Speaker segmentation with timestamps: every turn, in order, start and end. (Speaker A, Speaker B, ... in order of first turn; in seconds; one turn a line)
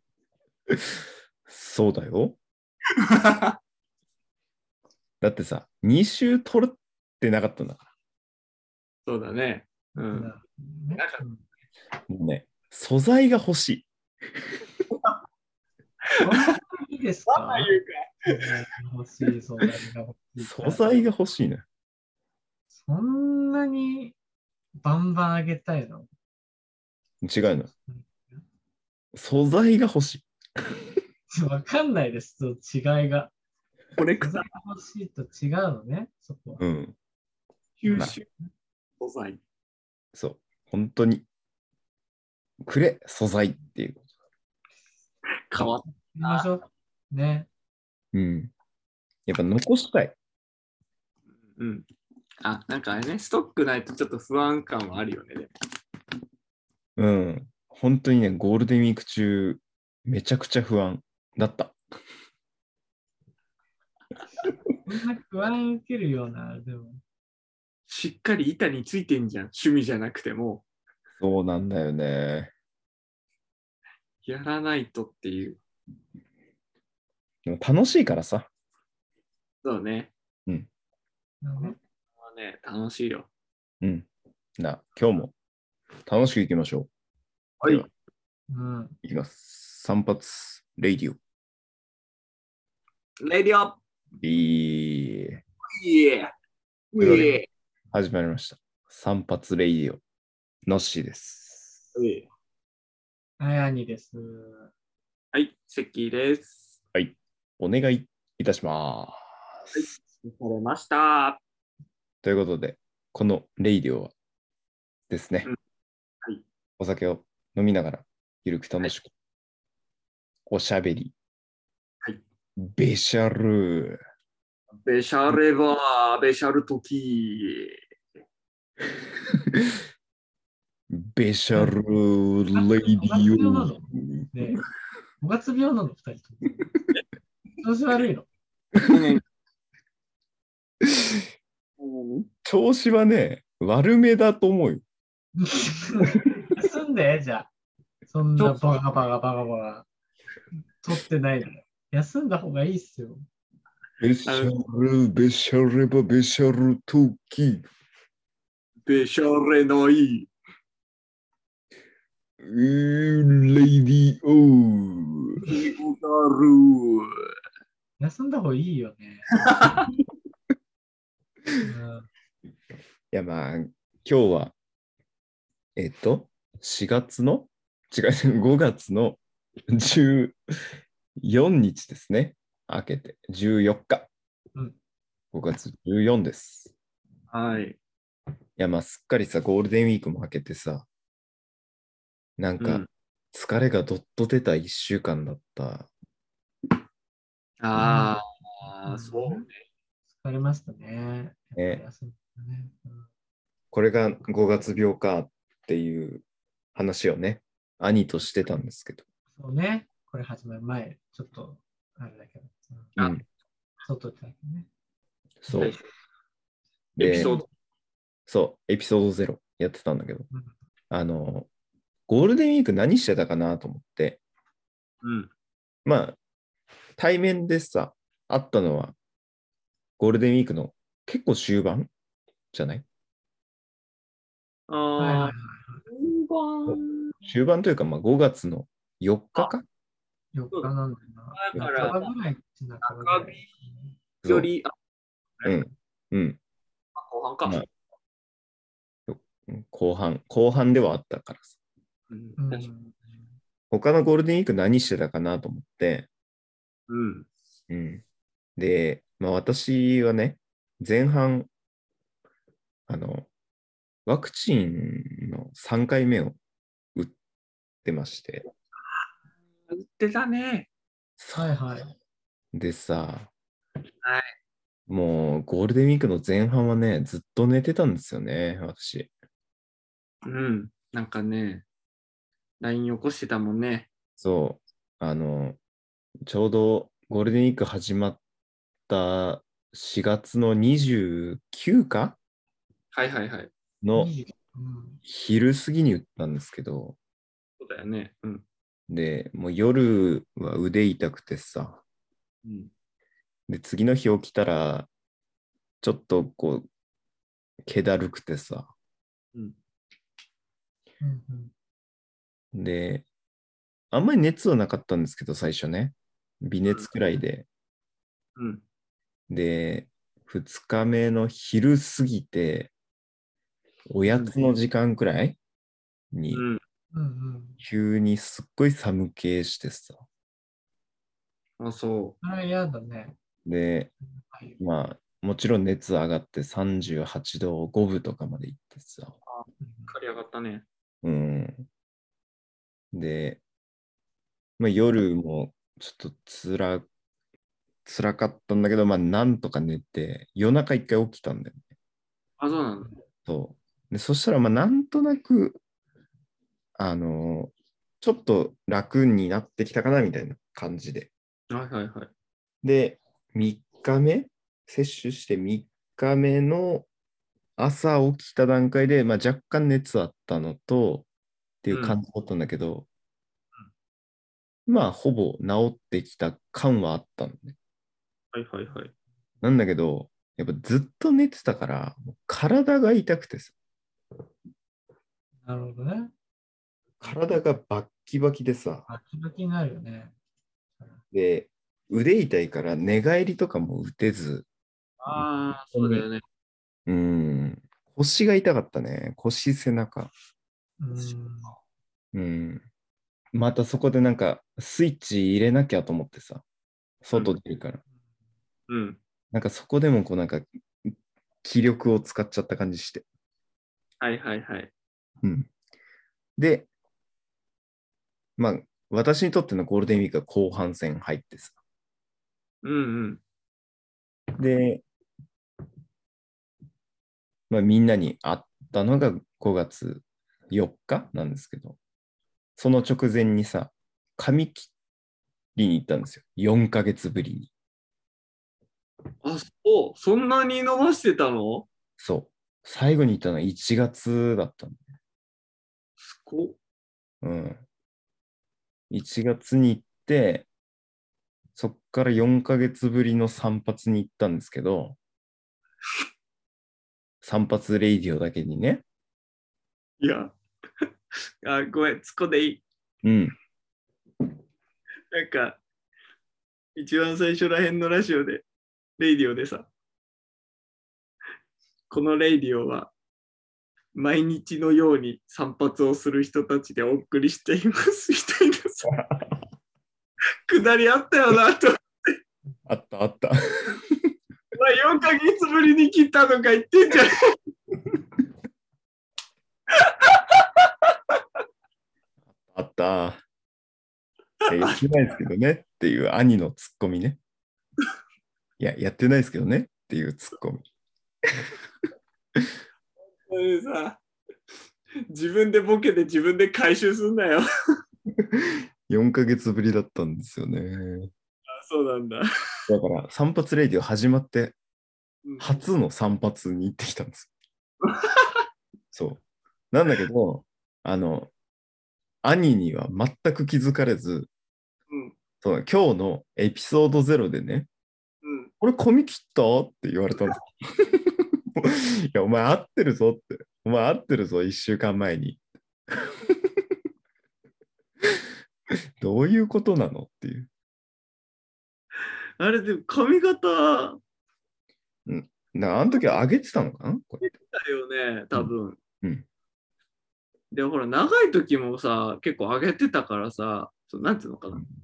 Speaker A: 0.7-2.4
Speaker B: 3.0-3.5
Speaker A: 5.2-7.8
Speaker B: 9.1-10.3
Speaker C: 10.1-11.4
Speaker B: 11.0-11.2
Speaker A: 12.1-13.9
Speaker B: 16.2-16.5
Speaker C: 16.2-21.0
Speaker B: 17.3-18.5
Speaker A: 20.4-21.6
Speaker C: 22.7-24.1
Speaker C: 24.8-26.1
Speaker A: 27.2-27.7
Speaker C: 27.9-28.4
Speaker A: 29.1-30.3
Speaker C: 31.3-33.3
Speaker B: 34.0-34.5
Speaker C: 34.2-36.6
Speaker A: 36.6-36.9
Speaker B: 37.8-38.3
Speaker C: 37.9-38.2
Speaker B: 39.0-39.4
Speaker A: 40.1-41.2
Speaker A: 42.6-44.0
Speaker B: 45.5-46.5
Speaker C: 45.6-47.5
Speaker A: 48.1-48.5
Speaker A: 49.3-50.1
Speaker B: 51.5-51.9
Speaker B: 52.4-55.5
Speaker A: 57.0-61.7
Speaker C: 64.8-67.0
Speaker B: 67.9-70.6
Speaker A: 71.2-72.5
Speaker B: 74.2-75.6
Speaker A: 77.4-78.5
Speaker B: 79.6-80.1
Speaker C: 81.4-81.8
Speaker B: 81.6-83.3
Speaker A: 83.8-84.1
Speaker A: 84.6-85.3
Speaker A: 86.1-86.9
Speaker B: 87.6-87.9
Speaker A: 87.6-87.9
Speaker C: 88.5-89.0
Speaker A: 89.0-91.2
Speaker B: 93.2-93.8
Speaker A: 94.2-95.4
Speaker B: 95.7-96.3
Speaker B: 96.9-97.5
Speaker A: 97.0-97.4
Speaker A: 97.9-100.0
Speaker A: 100.6-101.9
Speaker B: 101.9-102.3
Speaker C: 103.4-104.7
Speaker B: 105.3-106.8
Speaker A: 106.9-109.8
Speaker B: 109.7-111.4
Speaker A: 112.2-114.1
Speaker A: 115.1-115.5
Speaker A: 116.8-119.1
Speaker A: 120.5-121.1
Speaker A: 122.6-124.0
Speaker B: 124.8-127.8
Speaker A: 129.4-129.8
Speaker A: 130.9-134.3
Speaker C: 132.5-134.6
Speaker C: 135.2-136.7
Speaker C: 137.6-138.3
Speaker B: 138.8-139.2
Speaker A: 140.8-141.2
Speaker B: 141.8-142.3
Speaker A: 142.4-144.8
Speaker C: 145.4-147.5
Speaker C: 148.1-149.8
Speaker B: 148.4-148.6
Speaker C: 150.8-153.2
Speaker A: 154.0-157.7
Speaker B: 154.2-154.5
Speaker B: 158.8-160.3
Speaker A: 162.4-165.4
Speaker B: 165.4-167.1
Speaker C: 168.0-169.4
Speaker B: 169.4-169.9
Speaker C: 171.6-172.1
Speaker A: 173.1-174.5
Speaker A: 175.8-180.4
Speaker A: 181.2-184.1
Speaker A: 185.3-186.7
Speaker B: 187.3-187.8
Speaker A: 188.6-190.9
Speaker A: 192.4-195.9
Speaker B: 192.6-192.9
Speaker B: 197.6-199.6
Speaker C: 197.8-199.4
Speaker C: 200.2-203.1
Speaker A: 203.7-206.2
Speaker A: 206.7-209.0
Speaker C: 209.3-212.9
Speaker A: 213.0-213.2
Speaker C: 213.8-214.7
Speaker A: 215.4-215.7
Speaker B: 215.5-215.8
Speaker B: 217.0-217.4
Speaker A: 217.0-217.4
Speaker C: 217.1-217.4
Speaker A: 218.3-220.3
Speaker A: 220.9-221.5
Speaker A: 222.1-224.2
Speaker B: 225.0-225.3
Speaker A: 225.8-226.2
Speaker A: 227.0-228.9
Speaker A: 230.0-231.9
Speaker A: 232.5-232.8
Speaker B: 234.7-235.3
Speaker C: 235.0-235.8
Speaker B: 235.9-237.1
Speaker A: 236.7-239.7
Speaker C: 240.3-243.9
Speaker B: 241.3-242.1
Speaker B: 242.8-243.5
Speaker A: 244.2-244.5
Speaker B: 244.2-244.7
Speaker A: 245.4-246.4
Speaker B: 246.9-247.6
Speaker A: 249.1-251.5
Speaker B: 252.1-252.7
Speaker C: 252.4-253.2
Speaker A: 253.7-256.1
Speaker B: 256.9-257.3
Speaker A: 257.7-258.0
Speaker A: 258.6-261.5
Speaker A: 262.9-263.3
Speaker A: 264.1-266.4
Speaker A: 267.8-268.4
Speaker B: 269.7-270.7
Speaker A: 271.2-271.5
Speaker C: 271.3-271.9
Speaker A: 272.5-273.3
Speaker B: 274.0-274.3
Speaker A: 274.9-279.1
Speaker B: 280.2-281.6
Speaker B: 282.6-283.9
Speaker A: 284.2-285.6
Speaker A: 286.2-288.2
Speaker A: 288.9-292.2
Speaker B: 292.9-293.5
Speaker A: 293.8-294.1
Speaker C: 293.9-295.0
Speaker A: 295.0-297.0
Speaker B: 297.6-298.4
Speaker A: 298.9-301.8
Speaker B: 302.4-302.7
Speaker A: 303.5-304.9
Speaker A: 305.8-306.7
Speaker A: 307.6-308.7
Speaker C: 311.0-311.5
Speaker A: 312.5-313.1
Speaker A: 313.9-317.5
Speaker B: 318.4-318.6
Speaker A: 319.3-322.7
Speaker A: 323.9-325.4
Speaker B: 324.1-324.4
Speaker A: 326.1-326.4
Speaker B: 326.3-326.6
Speaker C: 326.9-327.6
Speaker A: 327.6-330.0
Speaker B: 331.6-332.1
Speaker C: 332.2-333.2
Speaker A: 333.4-333.9
Speaker C: 334.2-334.6
Speaker A: 334.6-339.1
Speaker B: 339.3-340.6
Speaker C: 339.6-339.9
Speaker A: 341.0-341.6
Speaker A: 342.9-343.4
Speaker A: 344.6-346.9
Speaker A: 347.8-351.6
Speaker B: 352.4-352.9
Speaker A: 353.2-355.6
Speaker A: 356.8-361.1
Speaker B: 361.5-362.1
Speaker A: 362.6-366.9
Speaker A: 367.6-371.1
Speaker A: 371.6-372.9
Speaker B: 371.7-372.0
Speaker A: 374.7-377.6
Speaker B: 378.3-378.9
Speaker A: 379.4-383.5
Speaker C: 385.4-386.1
Speaker A: 387.0-388.8
Speaker C: 388.9-390.1
Speaker A: 391.1-394.5
Speaker B: 395.0-396.2
Speaker A: 395.1-396.1
Speaker A: 396.9-400.1
Speaker C: 400.8-401.5
Speaker A: 402.1-402.6
Speaker A: 403.3-406.4
Speaker A: 407.0-407.8
Speaker B: 408.7-409.0
Speaker A: 409.3-413.0
Speaker B: 414.0-414.7
Speaker A: 415.2-415.5
Speaker A: 416.4-416.7
Speaker A: 418.4-421.6
Speaker B: 422.6-423.2
Speaker A: 424.4-424.8
Speaker A: 427.5-431.8
Speaker A: 432.6-434.7
Speaker A: 435.5-437.5
Speaker B: 439.2-441.7
Speaker A: 442.0-444.8
Speaker B: 446.0-446.6
Speaker A: 447.2-447.6
Speaker A: 448.9-450.5
Speaker A: 451.6-455.0
Speaker A: 457.2-458.8
Speaker B: 460.0-460.3
Speaker B: 461.4-462.6
Speaker A: 463.0-463.3
Speaker B: 465.1-465.6
Speaker B: 466.8-468.4
Speaker B: 469.0-469.7
Speaker B: 471.9-472.9
Speaker B: 473.9-478.9
Speaker A: 478.9-479.2
Speaker B: 480.5-482.2
Speaker A: 482.7-484.0
Speaker B: 484.5-487.3
Speaker B: 489.7-490.7
Speaker A: 492.3-493.2
Speaker B: 494.4-494.9
Speaker A: 494.5-497.2
Speaker A: 498.6-500.6
Speaker B: 503.2-504.0
Speaker B: 505.1-507.4
Speaker A: 508.2-511.1
Speaker B: 511.5-512.2
Speaker A: 512.7-514.5
Speaker B: 515.2-515.6
Speaker A: 515.4-517.3
Speaker B: 517.8-518.4
Speaker A: 518.9-521.3
Speaker A: 522.2-524.3
Speaker B: 524.9-525.1
Speaker A: 525.4-527.7
Speaker B: 528.2-528.5
Speaker A: 528.6-535.4
Speaker A: 536.0-536.6
Speaker A: 539.0-540.5
Speaker B: 542.4-544.0
Speaker A: 545.0-547.2
Speaker B: 547.2-548.8
Speaker B: 550.5-554.6